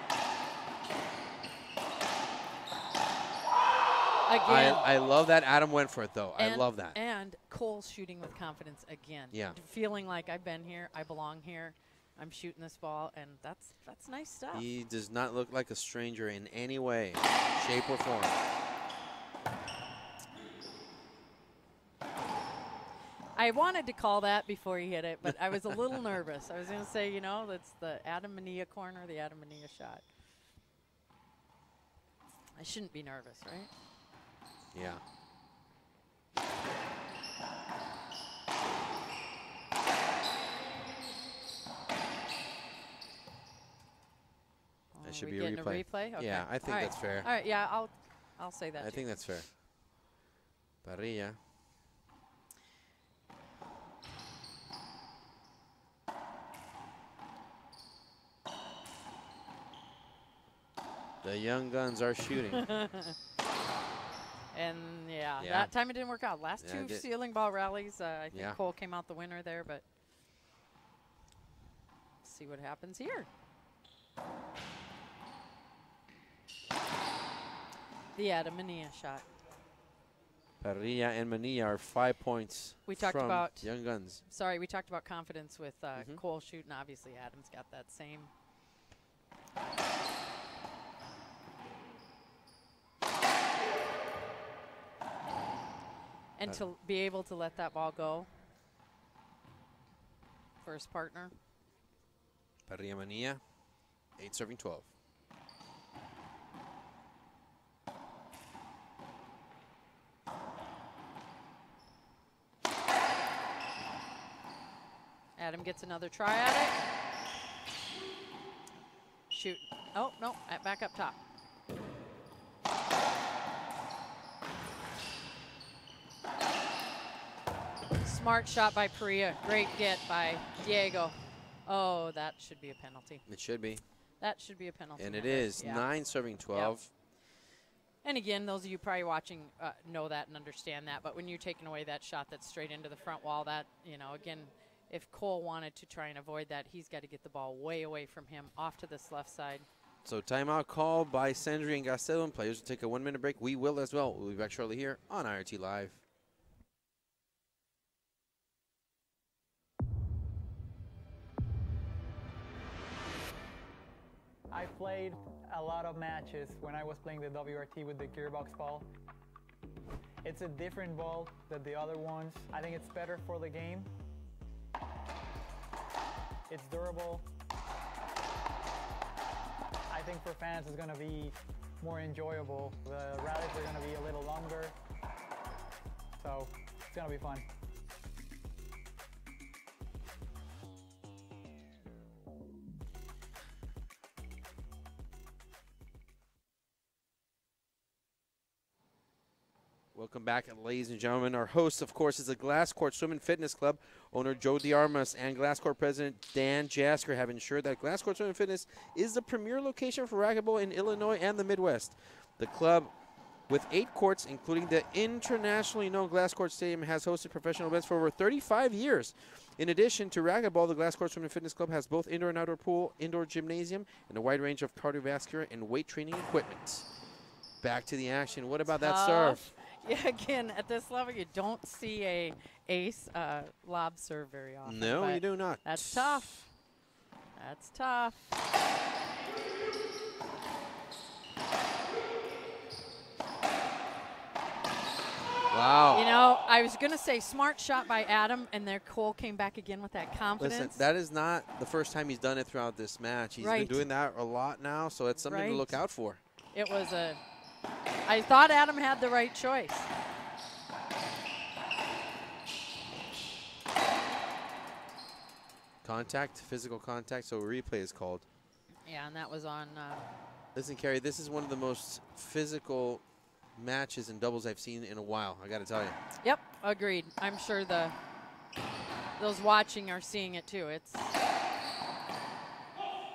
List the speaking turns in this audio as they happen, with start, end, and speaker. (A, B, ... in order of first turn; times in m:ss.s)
0:04.3-0:04.9 A
0:04.4-0:07.0 B
0:06.4-0:14.6 A
0:09.3-0:09.6 B
0:14.5-0:18.4 B
0:23.4-0:30.0 A
0:32.6-0:33.7 A
0:34.7-0:35.0 B
0:44.9-0:49.1 A
0:45.0-0:47.3 B
0:48.8-0:49.5 B
0:50.8-0:51.4 B
1:01.2-1:02.7 B
1:02.6-1:03.2 A
1:04.5-1:09.8 A
1:05.4-1:05.7 B
1:06.6-1:07.0 B
1:08.3-1:08.6 B
1:12.2-1:13.3 A
1:18.2-1:19.2 A
1:20.6-1:24.2 B
1:22.9-1:23.7 A
1:24.3-1:28.3 A
1:26.0-1:26.2 B
1:36.4-1:38.3 A
1:40.6-1:41.4 A
1:42.7-1:43.4 B
1:44.2-1:44.9 B
1:55.4-1:56.8 A
1:59.3-2:01.2 A
2:08.0-2:13.2 A
2:13.3-2:13.8 B
2:14.2-2:15.9 A
2:15.0-2:16.9 B
2:18.0-2:29.7 A
2:30.0-2:36.0 B
2:44.5-2:48.9 C
2:50.2-2:53.9 C
2:56.5-2:57.3 C
2:59.9-3:04.8 C
3:06.2-3:07.5 C
3:19.9-3:32.9 B
3:33.5-3:46.9 B
3:47.6-3:49.4 B
3:48.7-3:56.5 A
3:54.6-3:56.3 B
3:57.4-3:58.3 A
4:05.5-4:06.0 B
4:05.9-4:10.8 A
4:10.4-4:16.2 B
4:13.4-4:13.8 A
4:15.2-4:15.8 A
4:16.5-4:17.2 A
4:18.1-4:19.9 A
4:25.8-4:28.2 B
4:28.9-4:30.1 A
4:30.6-4:33.0 B
4:33.6-4:36.0 B
4:36.2-4:38.0 A
4:39.2-4:41.1 A